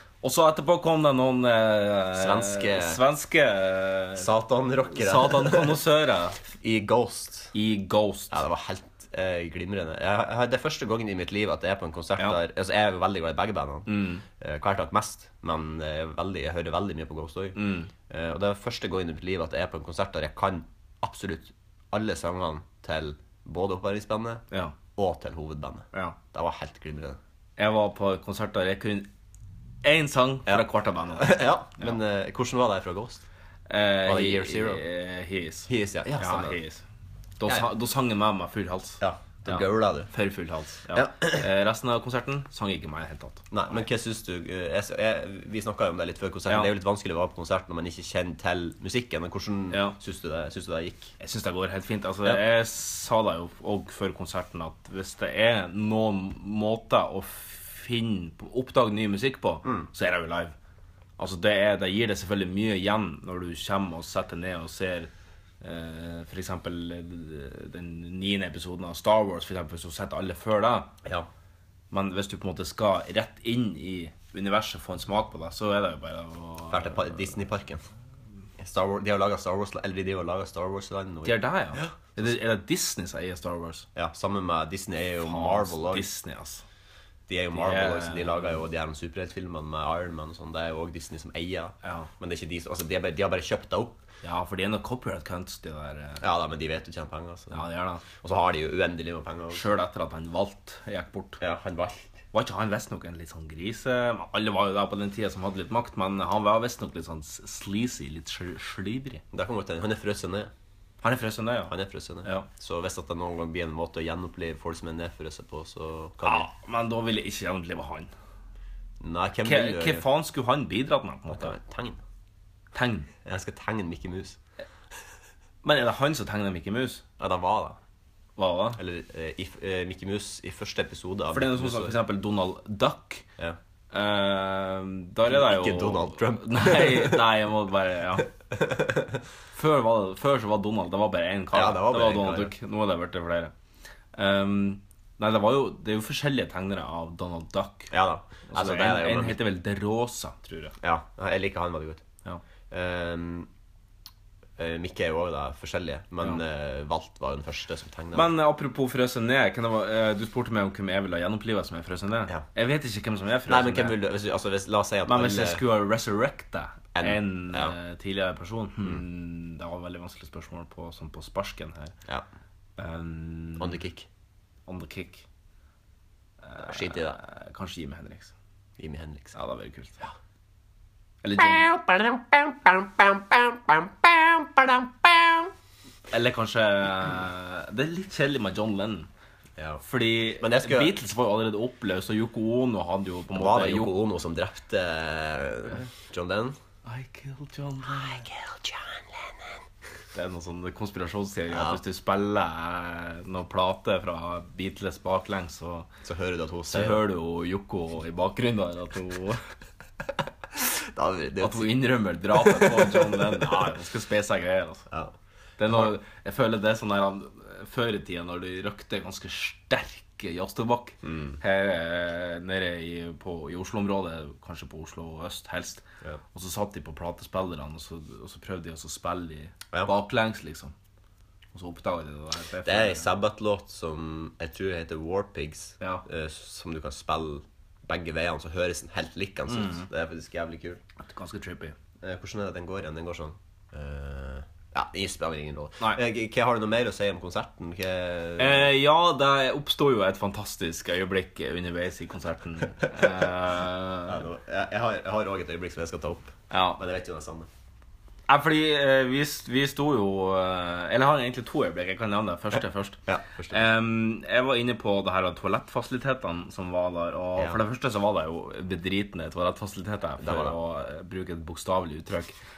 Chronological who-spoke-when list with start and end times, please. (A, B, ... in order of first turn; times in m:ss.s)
0:00.2-0:04.3 A
0:02.1-0:03.0 B
0:04.2-0:05.8 B
0:04.9-0:06.4 A
0:06.6-0:07.5 B
0:07.5-0:08.4 A
0:08.3-0:24.4 B
0:13.9-0:14.2 A
0:17.6-0:17.9 A
0:25.0-0:27.2 B
0:27.6-0:29.1 A
0:29.8-0:31.9 A
0:30.5-0:33.2 B
0:33.7-0:36.8 A
0:34.0-0:34.8 B
0:35.7-0:36.6 B
0:37.4-0:43.5 A
0:39.0-0:40.1 B
0:40.9-0:41.4 B
0:43.5-0:51.1 B
0:49.7-0:50.0 A
0:51.2-1:00.5 A
1:01.2-1:10.9 A
1:11.9-1:17.3 A
1:16.7-1:17.8 B
1:18.6-1:22.4 B
1:21.2-1:23.9 A
1:24.0-1:26.1 B
1:25.2-1:26.6 A
1:27.3-1:34.0 B
1:27.5-1:28.6 A
1:31.8-1:32.1 A
1:34.2-1:36.2 A
1:36.2-1:39.7 B
1:37.5-1:38.0 A
1:39.5-1:41.4 A
1:41.4-1:42.1 B
1:42.3-1:49.2 A
1:49.3-1:50.5 B
1:51.0-1:52.5 A
1:51.7-1:56.5 B
1:56.2-1:58.1 A
1:59.0-2:00.0 B
1:59.4-2:01.6 A
2:01.3-2:02.0 B
2:02.7-2:03.1 A
2:03.2-2:04.4 B
2:05.6-2:07.0 A
2:07.2-2:07.8 B
2:08.4-2:08.8 A
2:08.8-2:12.0 B
2:11.3-2:13.2 A
2:13.9-2:18.3 A
2:15.3-2:17.3 B
2:18.5-2:19.2 B
2:19.5-2:23.5 A
2:21.5-2:22.5 B
2:24.2-2:27.9 A
2:27.9-2:29.4 B
2:28.5-2:30.8 A
2:30.8-2:32.0 B
2:32.7-2:33.5 B
2:34.6-2:38.3 B
2:38.1-2:44.0 A
2:43.5-2:45.6 B
2:45.1-2:52.0 A
2:46.9-2:47.8 B
2:52.8-2:53.8 A
2:53.6-2:54.1 B
2:54.7-2:55.2 A
2:56.4-2:58.3 A
2:56.6-2:57.2 B
2:58.8-2:59.4 B
2:59.4-3:00.0 A
3:01.2-3:01.7 A
3:01.4-3:05.5 B
3:06.1-3:09.1 A
3:09.6-3:11.0 B
3:09.8-3:14.0 A
3:13.3-3:16.6 B
3:16.8-3:18.3 A
3:17.8-3:19.6 B
3:20.1-3:25.9 A
3:21.5-3:21.8 B
3:26.0-3:27.0 B
3:26.7-3:29.4 A
3:30.5-3:31.8 B
3:31.4-3:34.9 A
3:32.3-3:33.5 B
3:35.6-3:45.8 A
3:41.0-3:41.4 B
3:46.3-3:50.7 A
3:51.5-3:53.1 A
3:52.6-4:00.8 B
3:55.8-3:56.0 A
3:59.5-3:59.9 A
4:01.0-4:01.8 A
4:02.0-4:08.7 B
4:08.4-4:14.2 A
4:14.1-4:17.5 B
4:16.5-4:16.8 A
4:18.3-4:23.0 A
4:23.1-4:23.7 B
4:23.5-4:32.3 A
4:30.2-4:30.6 B